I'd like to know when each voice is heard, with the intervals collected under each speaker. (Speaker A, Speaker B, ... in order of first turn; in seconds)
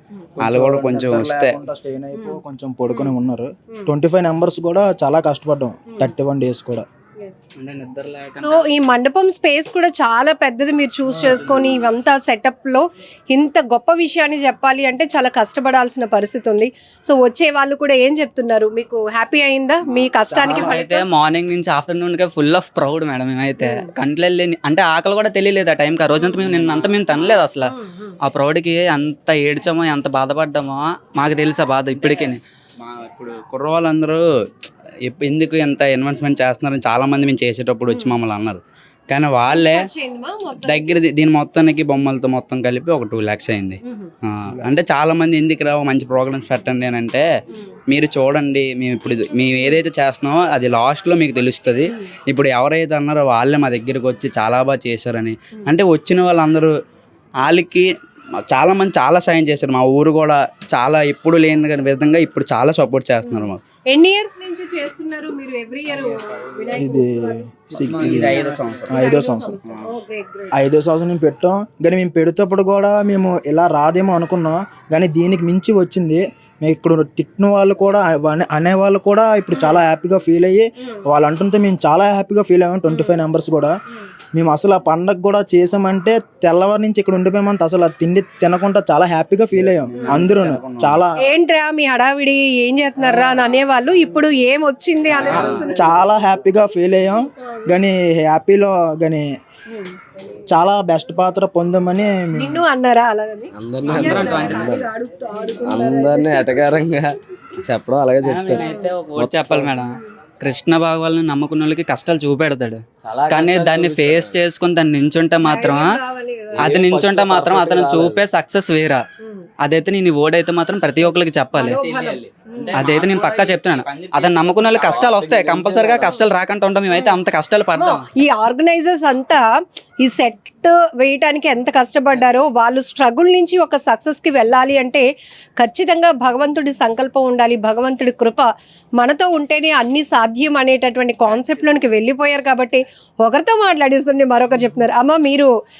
Speaker A: 0.4-6.8, 11.1-11.5, 20.3-20.8, 66.7-69.6, 70.5-83.7, 84.3-91.1, 95.2-99.3, 100.5-102.6
Speaker B: 0.4-1.6, 26.4-27.2, 31.9-39.8, 40.5-47.2, 47.9-56.7, 57.4-57.9, 58.5-63.6, 67.7-69.1, 89.5-91.0, 95.1-95.7, 113.7-114.0, 121.7-126.2
Speaker C: 2.1-2.4, 2.9-3.2, 8.4-21.0, 23.6-23.9, 27.7-28.2, 37.9-38.2, 39.5-41.0, 43.8-44.1, 47.5-47.8, 63.2-67.4, 68.2-70.6, 79.5-79.8, 82.9-83.2, 91.2-96.1, 97.4-97.8, 102.3-106.7, 108.5-108.9, 115.4-116.7, 121.5-122.9, 126.9-127.2, 127.8-129.4, 130.0-135.0, 135.6-138.5, 139.0-145.5
Speaker D: 7.6-8.6, 20.4-27.7, 28.2-32.4, 104.0-104.5, 108.2-109.9, 110.4-115.8, 116.6-119.0, 119.6-121.8, 122.7-128.0
Speaker E: 103.6-104.8, 105.5-109.8, 113.0-114.4, 116.5-118.2, 125.3-126.0